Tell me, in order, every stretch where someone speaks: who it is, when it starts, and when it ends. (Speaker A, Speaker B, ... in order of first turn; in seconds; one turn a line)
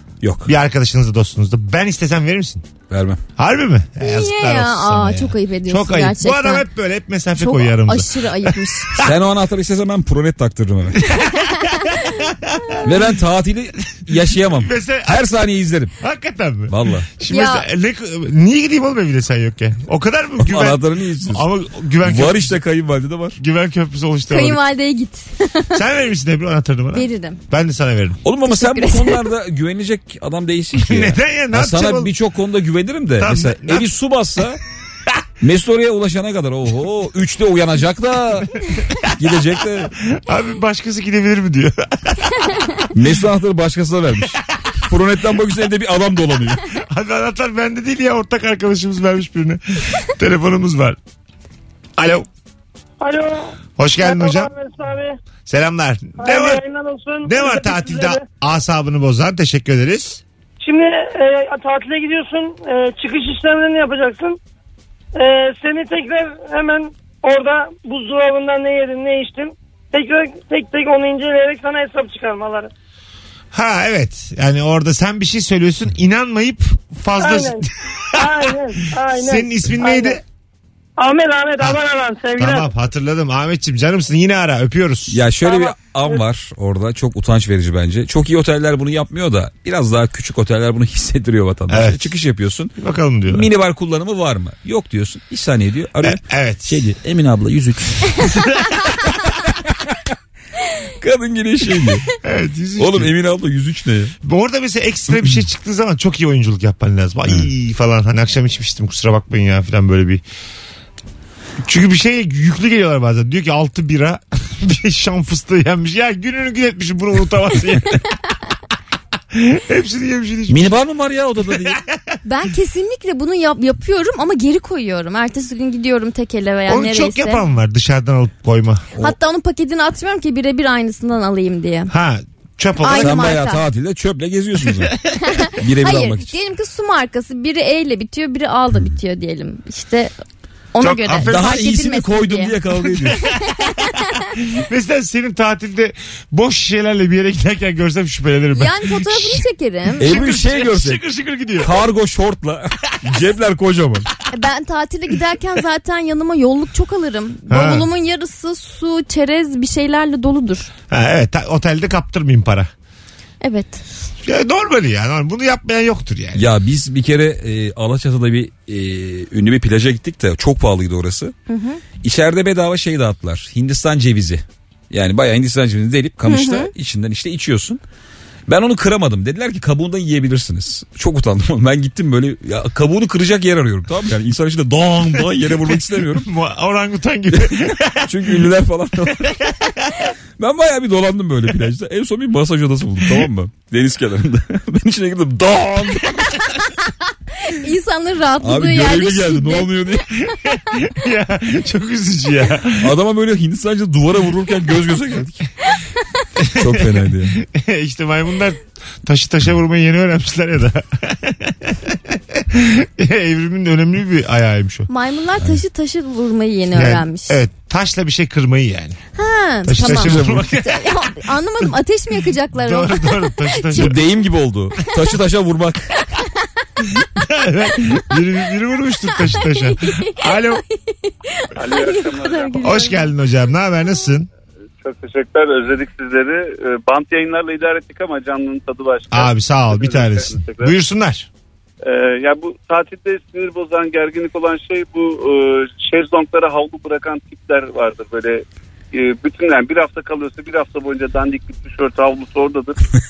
Speaker A: 0.2-0.5
Speaker B: 0.5-2.7
Speaker A: 2.9-3.2
Speaker B: 3.4-9.1
Speaker C: 4.0-6.7
Speaker C: 7.4-9.0
Speaker A: 9.0-11.0
Speaker B: 11.0-12.9
Speaker C: 11.4-12.2
Speaker A: 12.8-15.9
Speaker B: 14.5-15.3
Speaker B: 16.0-22.6
Speaker A: 16.7-17.1
Speaker C: 17.3-17.7
Speaker A: 20.4-21.5
Speaker A: 22.0-23.4
Speaker B: 23.4-24.6
Speaker C: 24.3-25.8
Speaker B: 25.7-28.2
Speaker C: 26.9-27.4
Speaker A: 28.2-34.6
Speaker C: 28.4-29.3
Speaker B: 30.8-32.1
Speaker B: 33.2-33.9
Speaker A: 35.4-39.9
Speaker B: 40.0-42.9
Speaker A: 42.9-46.6
Speaker B: 46.7-51.0
Speaker B: 52.0-52.3
Speaker D: 53.0-55.2
Speaker B: 53.8-54.5
Speaker B: 55.5-56.6
Speaker D: 56.2-58.2
Speaker B: 57.2-60.2
Speaker D: 60.6-64.4
Speaker D: 65.2-72.7
Speaker B: 73.5-78.5
Speaker D: 77.2-80.2
Speaker B: 79.1-80.2
Speaker D: 81.0-82.7
Speaker B: 82.4-85.2
Speaker A: 85.1-92.7
Speaker D: 85.5-86.2
Speaker B: 91.7-92.0
Speaker B: 92.8-93.5
Speaker A: 93.3-98.5
Speaker B: 96.0-96.8
Speaker A: 99.5-99.9
Speaker A: 101.0-102.1
Speaker B: 102.2-103.1
Speaker A: 102.8-104.1
Speaker B: 104.2-110.2
Speaker B: 111.6-118.0
Speaker B: 119.3-120.7
Speaker A: 120.5-121.8
Speaker B: 121.6-122.0
Speaker C: 122.2-127.4
Speaker B: 126.7-128.9
Speaker C: 129.0-131.9
Speaker B: 131.9-133.3
Speaker C: 132.8-133.6
Speaker A: 133.0-135.0
Speaker C: 135.2-140.1
Speaker A: 135.6-136.3
Speaker C: 140.7-142.5
Speaker B: 140.8-141.6
Speaker A: 141.3-143.3
Speaker C: 143.6-144.3
Speaker B: 144.4-149.4
Speaker C: 148.6-150.1
Speaker A: 150.0-151.0
Speaker B: 150.0-151.7
Speaker A: 151.6-154.1
Speaker C: 154.3-160.7
Speaker B: 157.5-157.9
Speaker B: 160.9-162.7
Speaker C: 163.4-163.8
Speaker B: 164.2-166.4
Speaker A: 166.3-171.3
Speaker C: 171.5-171.8
Speaker A: 172.0-177.8
Speaker C: 176.3-176.7
Speaker A: 178.5-186.3
Speaker B: 185.4-188.5
Speaker A: 187.4-189.5
Speaker B: 189.1-189.9
Speaker A: 190.4-196.5
Speaker C: 197.4-199.7
Speaker A: 198.4-200.1
Speaker B: 200.3-202.9
Speaker A: 202.8-205.5
Speaker C: 205.7-206.0
Speaker B: 206.4-214.9
Speaker A: 206.5-207.4
Speaker C: 214.9-217.4
Speaker B: 216.7-219.0
Speaker C: 219.2-223.9
Speaker B: 219.7-221.2
Speaker A: 219.8-220.5
Speaker B: 222.5-224.0
Speaker A: 223.7-225.9
Speaker B: 227.0-230.6
Speaker C: 229.3-230.2
Speaker C: 231.1-233.1
Speaker E: 231.6-232.9
Speaker B: 232.6-234.3
Speaker E: 234.8-240.7
Speaker B: 239.1-241.3
Speaker E: 241.8-252.8